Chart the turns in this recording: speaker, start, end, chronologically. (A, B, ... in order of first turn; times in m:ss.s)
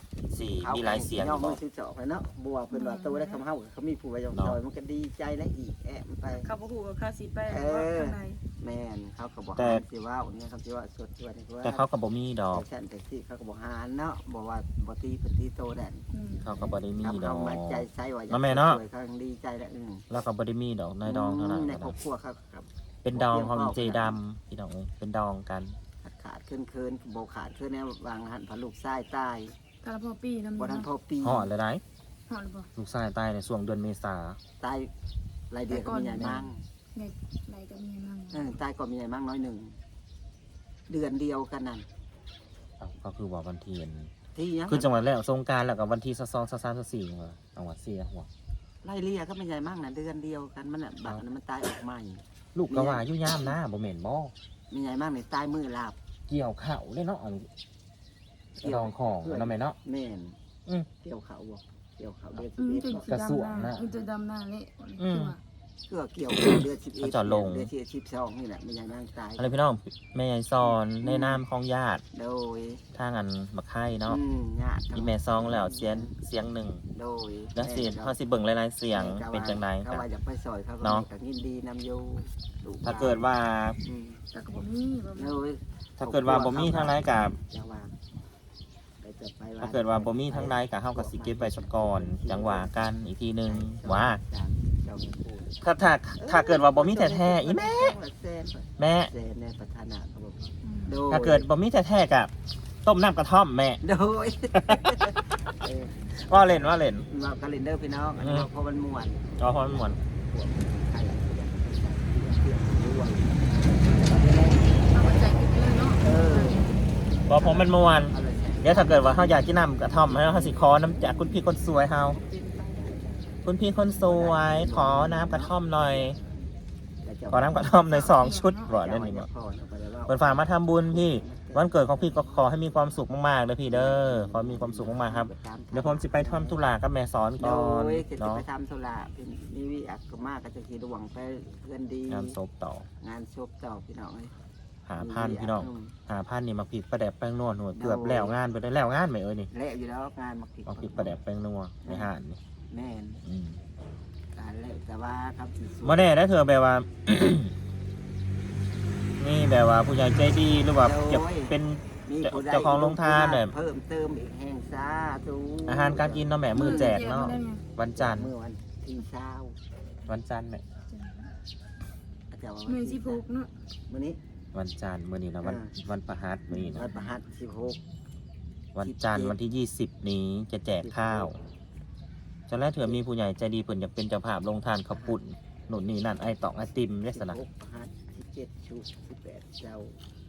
0:00.3-0:01.6 A
0:00.6-0:06.5 B
0:02.7-0:03.4 C
0:04.3-0:04.6 A
0:06.3-0:08.4 C
0:07.5-0:11.9 B
0:09.6-0:09.8 A
0:11.6-0:12.6 A
0:12.5-0:16.0 B
0:16.1-0:16.8 C
0:16.4-0:18.8 A
0:17.0-0:20.0 B
0:20.1-0:22.0 A
0:21.0-0:24.2 B
0:23.0-0:25.8 A
0:26.0-0:29.6 B
0:29.8-0:30.9 C
0:30.6-0:31.5 B
0:31.2-0:31.8 A
0:32.3-0:32.7 C
0:32.7-0:34.4 A
0:34.6-0:34.9 B
0:35.5-0:36.6 B
0:35.7-0:38.5 C
0:38.3-0:39.8 B
0:40.9-0:41.8 B
0:42.8-0:44.1 A
0:44.3-0:44.9 B
0:44.7-0:48.3 A
0:48.8-0:53.5 B
0:52.5-0:54.3 A
0:54.7-0:56.0 B
0:56.3-0:57.5 A
0:58.6-1:00.4 B
0:58.6-0:59.8 A
1:01.0-1:03.1 B
1:02.6-1:05.4 C
1:03.0-1:04.0 A
1:05.0-1:05.4 A
1:05.9-1:09.5 B
1:07.0-1:07.7 A
1:09.4-1:12.0 A
1:10.6-1:11.4 B
1:12.1-1:12.8 B
1:12.9-1:14.2 A
1:14.0-1:16.1 B
1:14.9-1:16.8 A
1:16.9-1:18.2 B
1:17.5-1:20.0 A
1:18.9-1:23.3 B
1:20.8-1:21.0 A
1:22.8-1:23.8 A
1:23.8-1:24.2 B
1:24.3-1:25.4 C
1:25.1-1:27.9 B
1:26.0-1:27.4 A
1:29.0-1:32.9 B
1:29.6-1:34.2 A
1:33.4-1:35.6 B
1:35.6-1:38.0 A
1:36.2-1:41.5 B
1:38.8-1:39.1 A
1:40.6-1:41.0 C
1:41.1-1:42.3 A
1:42.8-1:43.8 A
1:43.8-1:54.8 B
1:44.5-1:45.1 A
1:46.2-1:47.0 A
1:48.2-1:48.5 A
1:49.4-1:50.0 A
1:54.8-1:56.8 C
1:56.0-1:56.7 B
1:57.3-2:02.2 A
1:57.3-1:59.4 B
2:00.2-2:00.6 B
2:02.0-2:06.5 B
2:03.4-2:06.2 A
2:07.0-2:07.8 B
2:07.3-2:09.3 A
2:07.9-2:08.7 C
2:08.7-2:12.6 B
2:10.1-2:18.4 A
2:13.7-2:16.6 B
2:17.4-2:22.4 B
2:22.1-2:22.9 A
2:23.0-2:24.3 B
2:24.8-2:29.5 A
2:25.0-2:25.9 B
2:27.7-2:28.4 B
2:29.5-2:31.2 B
2:30.7-2:32.4 A
2:31.8-2:32.1 B
2:32.7-2:33.2 B
2:33.2-2:33.6 A
2:34.3-2:36.1 B
2:35.8-2:37.5 A
2:39.2-2:43.5 A
2:40.8-2:47.0 B
2:45.6-2:48.3 A
2:46.5-2:47.6 C
2:47.9-2:49.6 B
2:50.1-2:50.6 A
2:50.9-2:51.3 C
2:52.3-2:53.2 B
2:52.6-2:53.5 C
2:53.9-2:54.2 B
2:54.5-2:56.9 A
2:55.4-2:55.7 B
2:56.5-2:57.8 B
2:58.7-3:01.4 A
2:58.8-2:59.4 B
3:00.8-3:01.3 B
3:02.5-3:07.4 A
3:07.1-3:10.0 B